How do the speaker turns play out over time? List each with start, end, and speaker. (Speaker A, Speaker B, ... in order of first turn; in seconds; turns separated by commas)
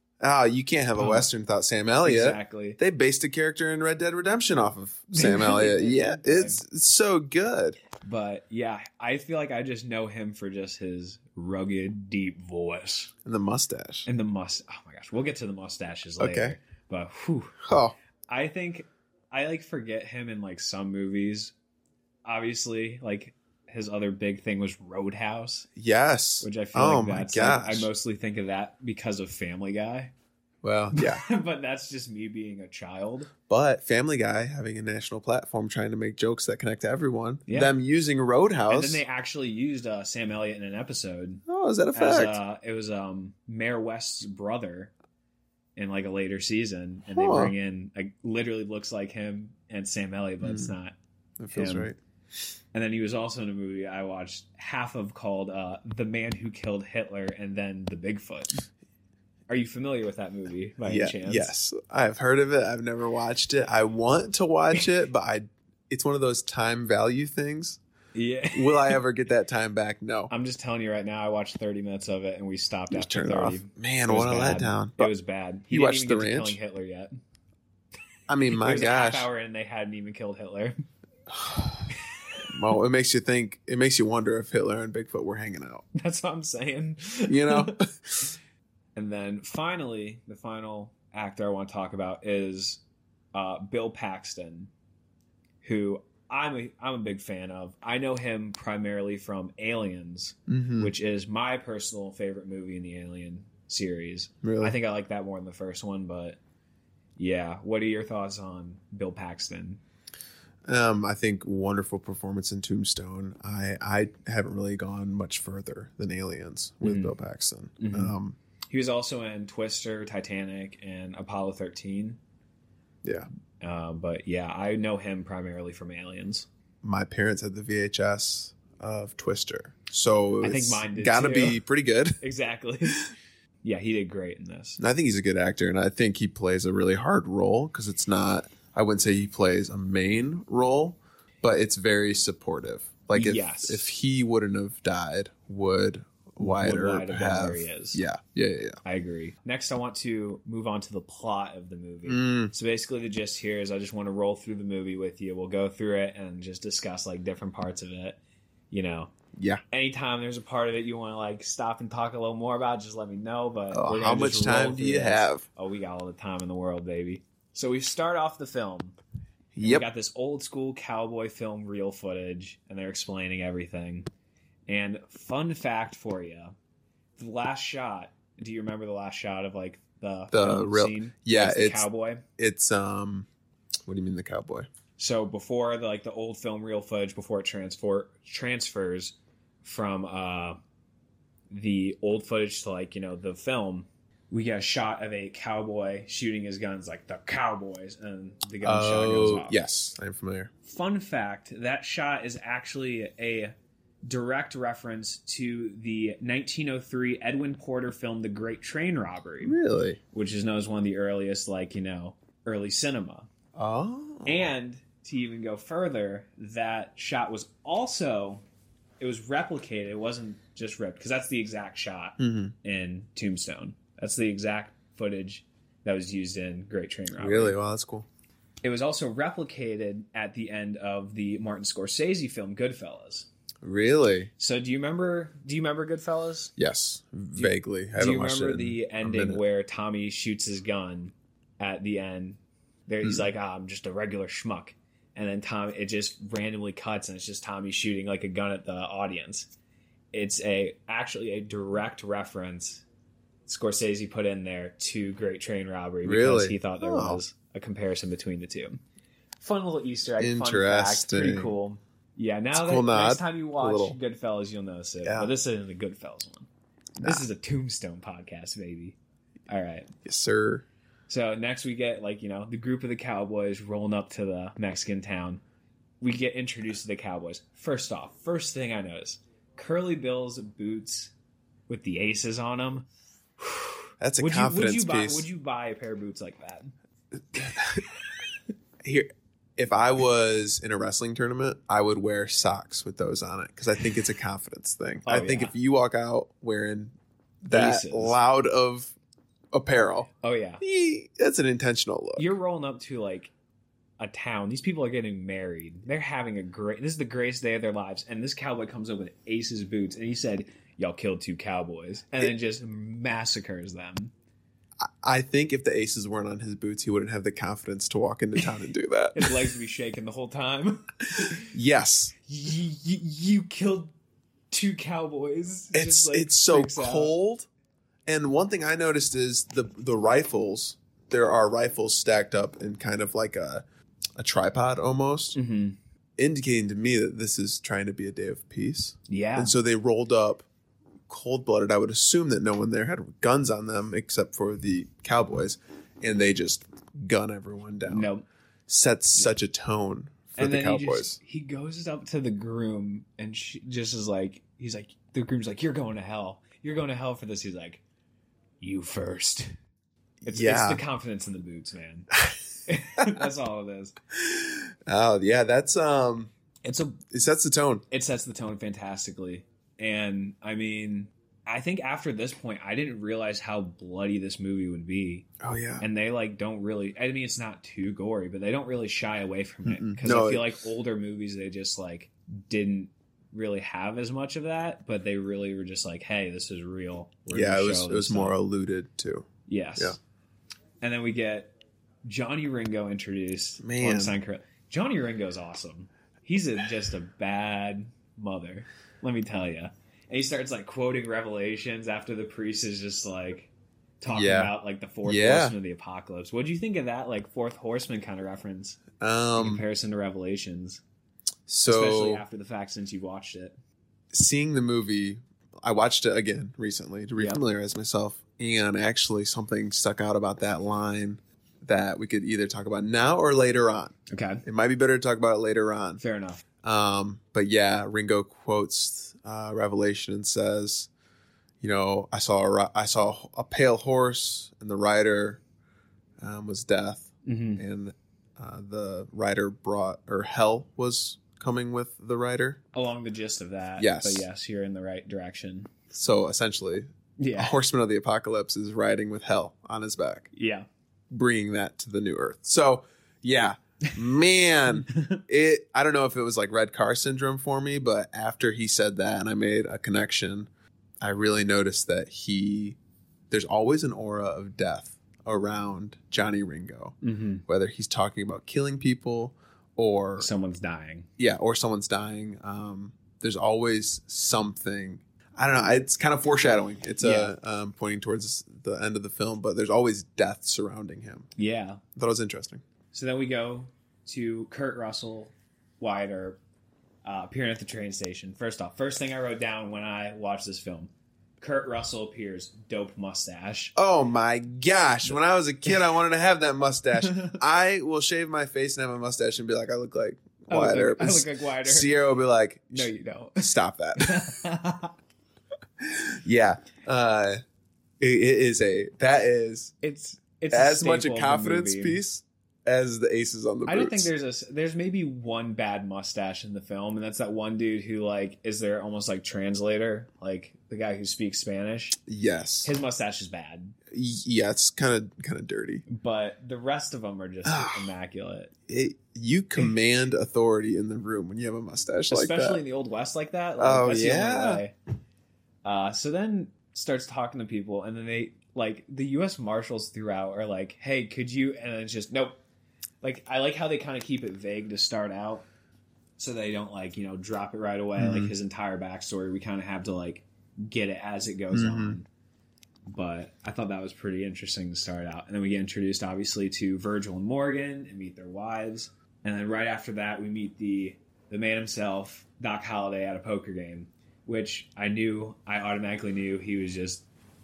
Speaker A: 0.2-7.8, Speaker B: 0.9-1.3, Speaker B: 2.0-2.8, Speaker B: 5.1-6.6, Speaker B: 8.0-13.1, Speaker A: 13.2-14.1, Speaker B: 14.1-17.6, Speaker A: 16.2-16.6, Speaker A: 17.6-17.9, Speaker B: 18.3-21.5, Speaker B: 22.2-25.7, Speaker A: 25.8-27.9, Speaker B: 26.4-30.1, Speaker A: 30.6-31.2, Speaker B: 30.9-33.3, Speaker A: 33.5-39.0, Speaker B: 37.5-37.7, Speaker B: 38.7-41.4, Speaker A: 41.5-42.4, Speaker B: 41.9-44.9, Speaker B: 45.8-50.9, Speaker A: 47.1-47.5, Speaker A: 50.4-50.7, Speaker A: 51.4-52.0, Speaker B: 51.5-51.9, Speaker B: 52.7-58.6, Speaker B: 59.5-61.5, Speaker A: 60.8-67.8, Speaker B: 68.1-69.0, Speaker A: 68.5-70.3, Speaker B: 70.3-77.1, Speaker A: 72.9-75.1, Speaker A: 75.7-76.6, Speaker A: 78.3-79.3, Speaker B: 78.5-80.7, Speaker A: 81.3-81.9, Speaker A: 82.5-85.8, Speaker B: 85.9-88.3, Speaker A: 87.3-87.8, Speaker B: 89.0-92.8, Speaker B: 93.3-94.7, Speaker B: 95.6-106.4, Speaker A: 100.5-100.9, Speaker A: 104.4-104.7, Speaker B: 107.2-109.8, Speaker A: 110.7-118.3, Speaker B: 116.8-117.1, Speaker B: 117.8-118.1, Speaker B: 118.7-122.2, Speaker B: 123.6-126.5, Speaker A: 126.8-132.2, Speaker B: 130.4-131.6, Speaker B: 132.2-133.1, Speaker B: 133.6-134.8, Speaker A: 134.8-148.8, Speaker B: 143.1-143.9, Speaker B: 146.4-148.0, Speaker B: 148.8-158.2, Speaker A: 152.1-152.5, Speaker B: 158.7-159.1, Speaker A: 159.3-159.6, Speaker B: 159.7-169.0, Speaker A: 163.7-165.4, Speaker A: 169.5-169.9, Speaker B: 169.6-174.1, Speaker B: 174.7-176.5, Speaker B: 177.2-182.2, Speaker A: 180.3-181.8, Speaker A: 182.4-183.3, Speaker A: 183.8-184.7, Speaker B: 185.0-190.6, Speaker B: 191.5-199.6, Speaker A: 198.6-200.5, Speaker B: 200.6-203.5, Speaker B: 204.1-209.6, Speaker A: 209.4-210.0, Speaker B: 210.1-213.3, Speaker A: 213.5-214.5, Speaker B: 214.2-218.4, Speaker B: 219.0-227.6, Speaker A: 222.2-222.5, Speaker A: 227.2-228.1, Speaker B: 228.6-233.3, Speaker A: 233.6-234.3, Speaker B: 234.4-236.5, Speaker A: 236.6-239.4, Speaker B: 237.3-249.5, Speaker B: 250.1-252.8, Speaker B: 253.4-258.8, Speaker A: 256.0-257.2, Speaker B: 259.4-266.5, Speaker A: 260.2-261.5, Speaker A: 262.5-263.9, Speaker A: 265.0-265.3, Speaker A: 267.0-267.2, Speaker B: 267.0-269.0, Speaker B: 269.5-269.9, Speaker A: 270.0-270.6, Speaker B: 271.1-275.4, Speaker B: 276.0-281.1, Speaker B: 281.7-282.9, Speaker B: 283.4-286.7, Speaker A: 284.0-285.3, Speaker A: 287.3-287.8, Speaker A: 288.8-298.9, Speaker B: 295.1-295.5, Speaker B: 297.5-298.2, Speaker A: 299.5-300.1, Speaker B: 300.2-300.6, Speaker A: 300.6-302.3, Speaker B: 302.1-303.3, Speaker B: 304.0-314.1, Speaker A: 314.8-319.4, Speaker B: 319.1-321.5, Speaker A: 321.5-322.1, Speaker B: 322.2-323.9, Speaker B: 324.5-327.1, Speaker A: 325.7-327.5, Speaker A: 328.1-333.6, Speaker A: 334.2-335.4, Speaker B: 335.3-335.8, Speaker A: 336.2-340.4, Speaker B: 339.1-339.5, Speaker A: 341.1-348.1, Speaker B: 347.9-348.2, Speaker A: 348.7-351.2, Speaker B: 350.4-357.8, Speaker B: 358.6-359.6, Speaker A: 360.2-360.8, Speaker B: 360.3-362.1, Speaker B: 362.7-363.9, Speaker A: 364.1-366.3, Speaker B: 366.6-367.0, Speaker A: 367.1-367.8, Speaker B: 367.9-375.3, Speaker A: 375.4-375.8, Speaker B: 375.8-388.4, Speaker A: 379.6-380.6, Speaker A: 387.3-389.9, Speaker B: 389.5-390.0, Speaker B: 390.8-391.5, Speaker B: 392.0-408.8, Speaker A: 393.6-394.1, Speaker A: 404.1-405.6, Speaker A: 409.0-409.6, Speaker B: 409.4-410.8, Speaker A: 411.5-412.2, Speaker B: 411.6-413.6, Speaker A: 414.1-426.0, Speaker B: 424.1-424.4, Speaker B: 426.0-426.4, Speaker A: 426.6-430.9, Speaker A: 431.6-435.4, Speaker A: 436.2-442.6, Speaker B: 437.2-437.6, Speaker B: 442.7-445.7, Speaker A: 443.8-444.2, Speaker A: 445.9-450.3, Speaker B: 447.2-447.6, Speaker B: 450.3-450.6, Speaker A: 451.1-460.5, Speaker B: 454.9-455.2, Speaker A: 461.0-462.8, Speaker A: 463.3-470.3, Speaker B: 467.0-467.4, Speaker B: 470.2-471.1, Speaker A: 471.2-481.3, Speaker B: 477.0-477.3, Speaker B: 481.4-481.8, Speaker A: 481.9-482.6, Speaker B: 482.9-486.4, Speaker B: 487.0-493.7, Speaker A: 493.8-504.4, Speaker B: 497.0-497.4, Speaker B: 500.5-501.9, Speaker B: 502.7-504.9, Speaker A: 505.8-507.4, Speaker A: 508.0-509.7, Speaker B: 509.8-512.0, Speaker A: 510.5-514.1, Speaker B: 513.6-522.0, Speaker A: 522.0-522.7, Speaker B: 522.6-523.8, Speaker A: 523.9-525.8, Speaker B: 525.9-528.5, Speaker A: 527.4-527.9, Speaker A: 528.7-532.6, Speaker B: 532.1-534.7, Speaker A: 533.6-534.6, Speaker B: 535.6-542.4, Speaker B: 543.0-545.4, Speaker B: 546.2-552.1, Speaker A: 548.0-548.3, Speaker A: 551.5-552.0, Speaker B: 552.9-567.0